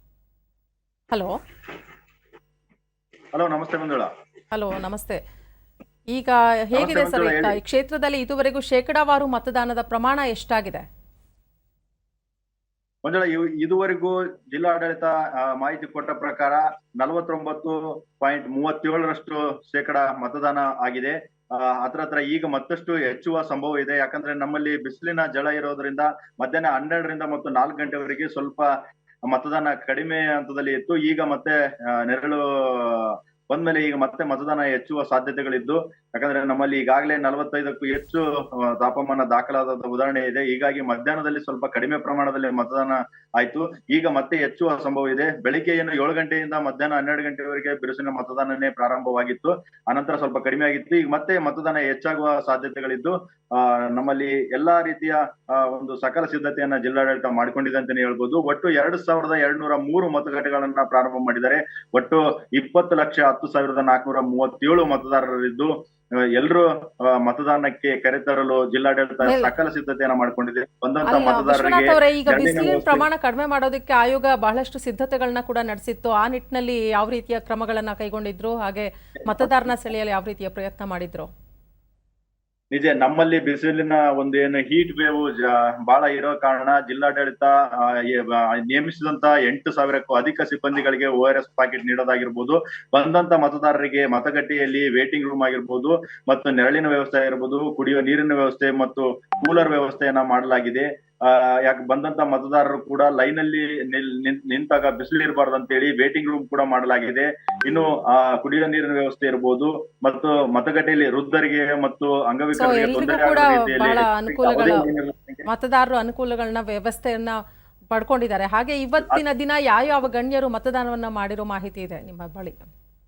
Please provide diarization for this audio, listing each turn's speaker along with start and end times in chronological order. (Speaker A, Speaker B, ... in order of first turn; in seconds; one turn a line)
Speaker A: 1.1-1.4
Speaker B: 3.3-4.1
Speaker A: 4.5-5.2
Speaker A: 6.1-10.8
Speaker B: 6.7-7.6
Speaker B: 13.0-28.7
Speaker B: 29.3-65.7
Speaker B: 66.3-73.0
Speaker A: 69.2-69.5
Speaker A: 71.0-81.3
Speaker B: 79.2-79.7
Speaker B: 82.7-115.5
Speaker A: 112.5-114.8
Speaker A: 115.5-117.4
Speaker A: 117.9-122.7